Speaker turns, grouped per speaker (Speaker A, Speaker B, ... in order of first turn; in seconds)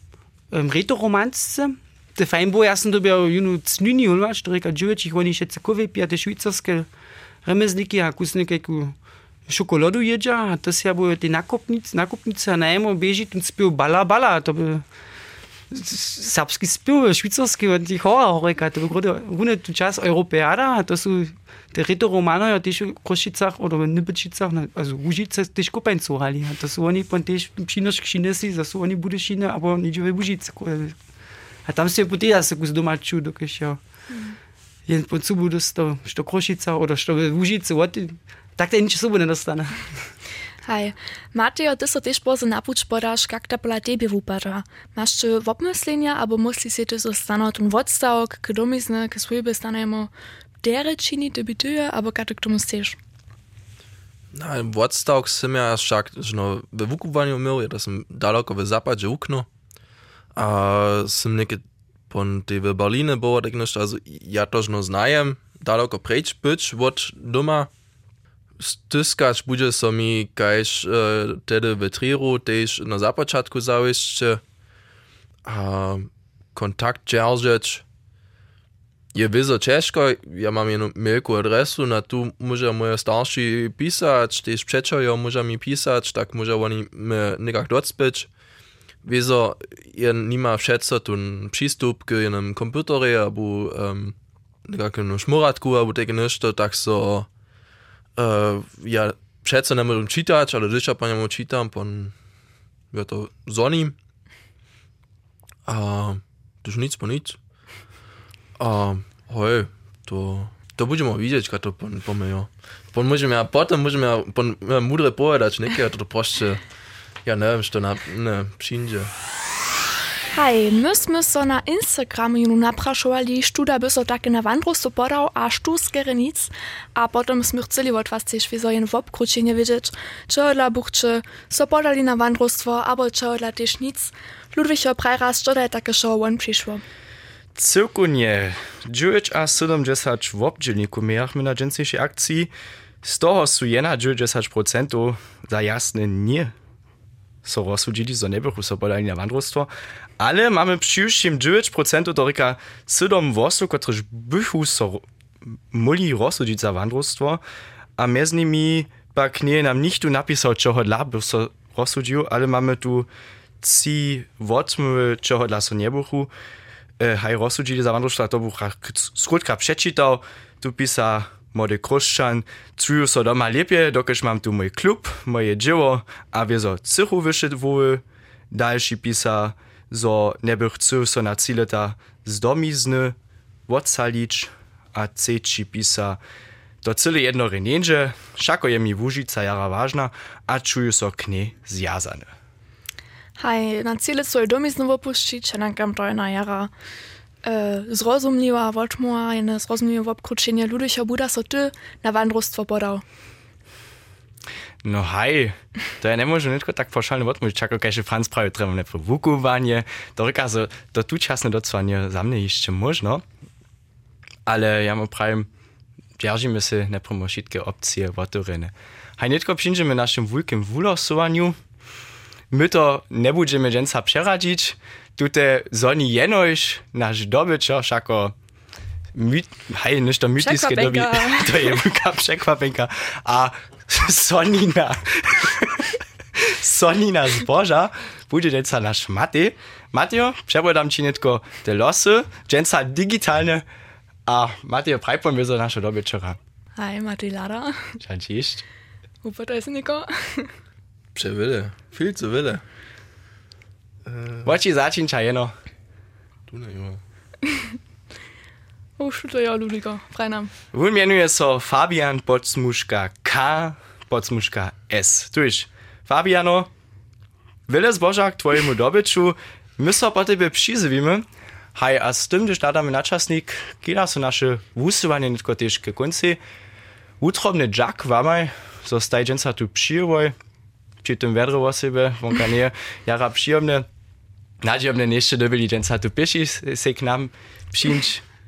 Speaker A: 0.5-6.9, 7.5-8.9, 9.5-14.8, 15.7-31.0, 31.7-33.8, 34.9-39.9
Speaker B: 40.7-50.1, 50.6-53.0, 120.3-136.8, 193.4-196.7, 197.4-203.0, 230.4-231.8, 246.8-247.8, 249.2-250.5, 259.0-260.5
Speaker C: 54.3-59.5, 60.4-67.7, 68.6-74.4, 75.5-77.8, 79.1-88.3, 89.0-94.2, 94.7-97.3, 98.2-102.1, 102.9-104.0, 105.7-107.4, 108.6-116.6, 117.2-119.1, 251.2-252.6, 254.1-254.5, 256.5-257.0
Speaker D: 137.6-146.5, 147.4-157.4, 158.0-163.1, 163.6-166.3, 167.0-183.2, 183.7-186.2, 186.8-192.3, 204.8-213.2, 214.5-215.5, 216.2-221.6, 222.5-228.3, 229.1-243.7, 244.3-246.4, 248.0-248.7, 254.4-255.5, 260.7-266.7, 267.7-276.4, 277.2-280.4, 281.0-283.9, 284.6-288.2